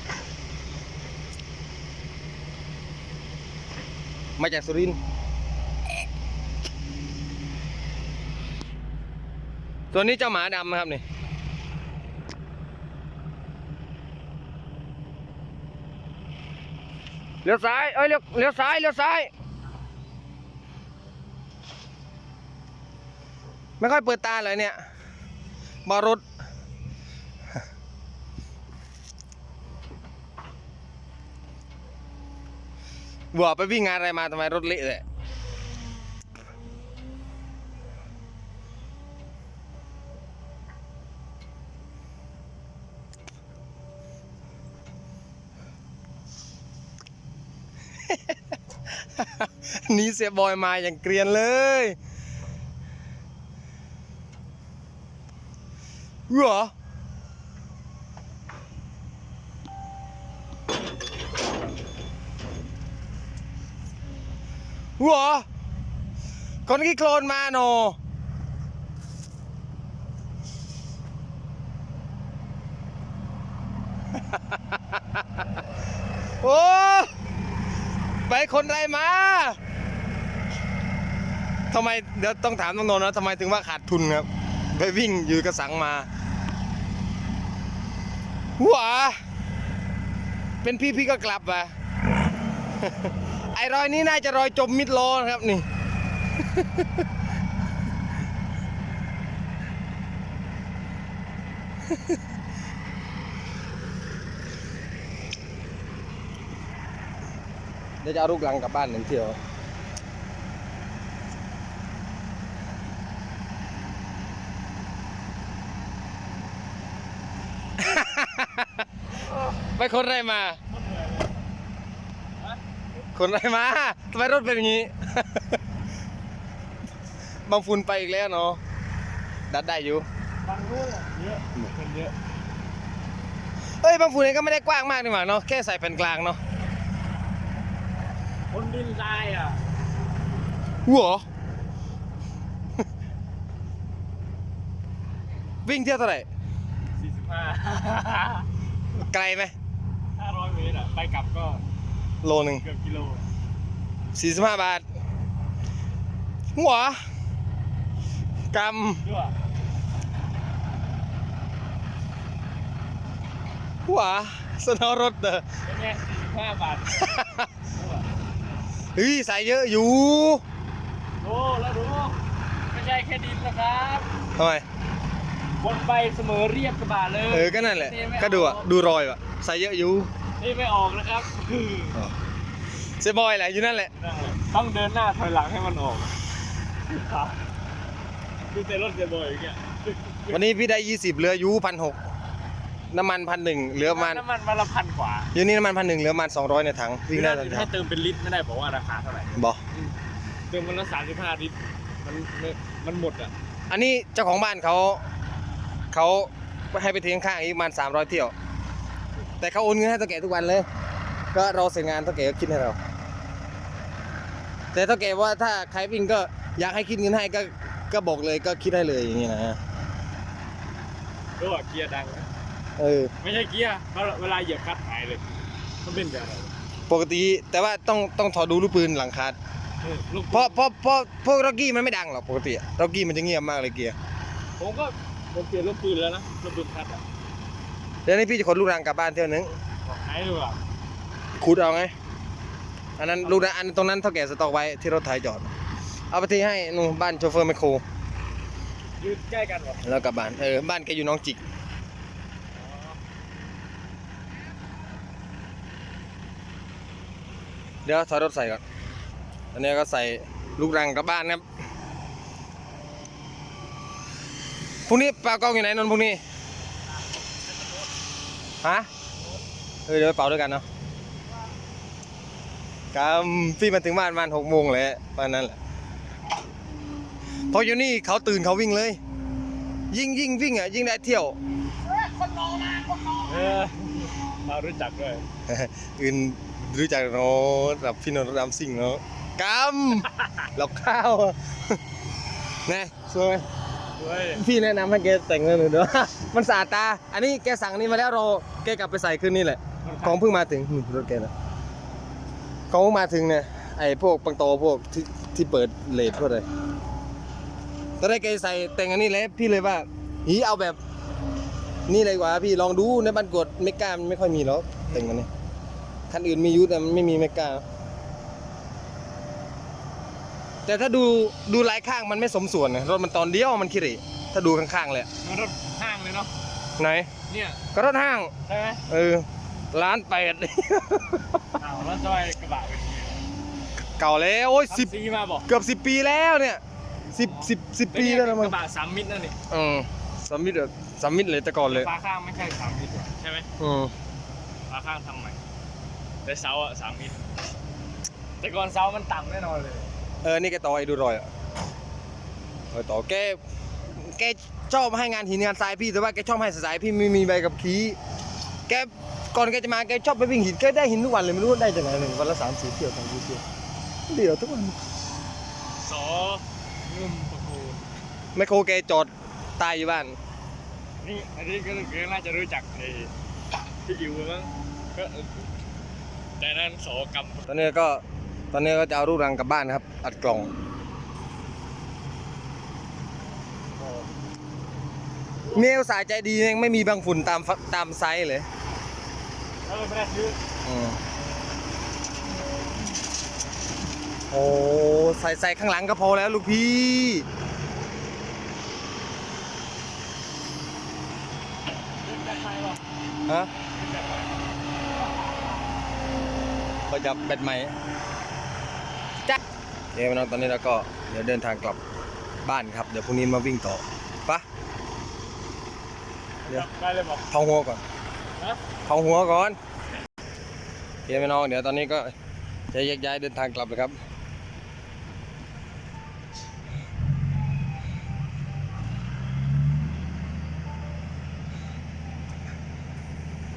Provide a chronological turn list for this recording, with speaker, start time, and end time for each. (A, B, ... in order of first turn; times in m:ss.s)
0:04.4-0:05.0 A
0:09.9-0:11.0 A
0:17.4-0:19.3 A
0:23.8-0:24.8 A
0:25.9-0:26.2 A
0:33.3-0:35.0 A
0:48.1-0:48.3 A
0:49.2-0:52.0 A
0:56.3-0:56.7 A
1:05.0-1:05.5 A
1:06.7-1:08.0 A
1:16.4-1:17.1 A
1:18.2-1:19.6 A
1:21.7-1:26.1 A
1:28.6-1:29.2 A
1:30.6-1:31.7 A
1:32.8-1:35.7 A
1:48.0-1:49.4 A
1:57.8-1:58.7 A
1:59.7-2:00.6 A
2:00.7-2:01.4 B
2:03.1-2:05.6 A
2:07.5-2:08.6 A
2:09.5-2:10.1 A
2:10.4-2:12.1 B
2:13.8-2:16.4 A
2:18.5-2:19.6 B
2:20.9-2:21.2 A
2:25.7-2:26.3 A
2:27.0-2:28.5 B
2:28.9-2:29.5 A
2:30.2-2:31.6 B
2:32.2-2:32.6 A
2:32.6-2:33.2 B
2:34.2-2:34.8 A
2:36.6-2:37.0 A
2:38.5-2:39.1 A
2:39.0-2:39.4 B
2:43.9-2:45.5 A
2:45.6-2:47.0 B
2:47.0-2:47.5 A
2:47.8-2:48.0 B
2:49.0-2:50.4 A
2:51.2-2:52.2 B
2:52.7-2:54.1 B
2:54.4-2:54.6 A
2:55.6-2:58.7 B
2:57.3-3:00.1 A
3:00.4-3:02.0 B
3:03.0-3:03.9 A
3:04.0-3:06.2 B
3:06.7-3:07.4 B
3:08.5-3:10.4 B
3:10.3-3:12.0 A
3:12.9-3:14.2 A
3:13.8-3:15.3 B
3:15.3-3:17.7 A
3:17.1-3:20.0 B
3:19.4-3:19.6 A
3:20.5-3:23.3 B
3:23.7-3:25.1 A
3:25.9-3:28.3 A
3:29.4-3:30.7 A
3:31.3-3:32.8 A
3:34.7-3:39.6 A
3:41.4-3:42.3 B
3:42.8-3:43.1 A
3:43.2-3:45.3 B
3:45.8-3:46.5 B
3:46.9-3:49.4 A
3:49.8-3:50.6 B
3:50.3-3:54.0 A
3:54.6-3:57.0 B
3:58.1-3:59.5 A
3:59.8-4:00.6 B
4:01.4-4:01.9 A
4:03.0-4:05.5 A
4:03.2-4:03.5 B
4:06.1-4:07.8 A
4:09.0-4:09.8 B
4:09.8-4:11.4 A
4:12.6-4:13.0 B
4:17.8-4:18.6 A
4:19.5-4:21.4 A
4:24.9-4:26.2 A
4:28.6-4:28.9 A
4:29.9-4:30.6 A
4:32.9-4:35.6 A
4:37.5-4:39.0 A
4:39.9-4:41.4 A
4:42.2-4:45.2 B
4:45.5-4:51.8 A
4:52.7-4:53.4 A
4:54.0-4:54.4 B
4:54.3-5:01.3 A
4:59.8-5:00.2 B
5:02.7-5:06.5 A
5:08.0-5:10.8 A
5:11.9-5:15.3 A
5:16.1-5:17.6 A
5:20.7-5:25.1 A
5:25.2-5:26.3 B
5:26.8-5:27.1 A
5:27.3-5:27.6 B
5:27.7-5:28.3 A
5:28.5-5:28.8 B
5:28.9-5:31.3 A
5:31.6-5:33.2 B
5:34.0-5:34.9 A
5:34.7-5:35.5 B
5:35.5-5:36.6 A
5:37.1-5:38.6 A
5:37.1-5:39.4 B
5:39.5-5:41.9 A
5:41.7-5:43.5 B
5:43.6-5:43.9 A
5:44.7-5:45.4 B
5:46.2-5:47.2 B
5:48.4-5:49.9 B
5:50.2-5:51.3 A
5:52.7-5:53.4 A
5:53.9-5:58.0 A
5:58.7-6:03.4 A
6:04.1-6:04.8 A
6:05.8-6:07.9 B
6:08.4-6:10.2 A
6:11.0-6:13.1 B
6:13.8-6:15.5 B
6:16.4-6:17.5 B
6:17.5-6:20.5 A
6:23.8-6:24.1 B
6:25.5-6:28.5 A
6:29.6-6:30.4 B
6:30.6-6:31.0 A
6:34.3-6:37.3 A
6:42.0-6:42.8 B
6:43.8-6:44.4 B
6:46.9-6:47.7 A
6:49.9-6:51.8 A
6:52.4-6:54.4 A
6:56.4-6:57.3 B
6:57.3-6:57.8 A
6:58.9-6:59.6 A
7:01.1-7:02.2 A
7:02.7-7:04.0 A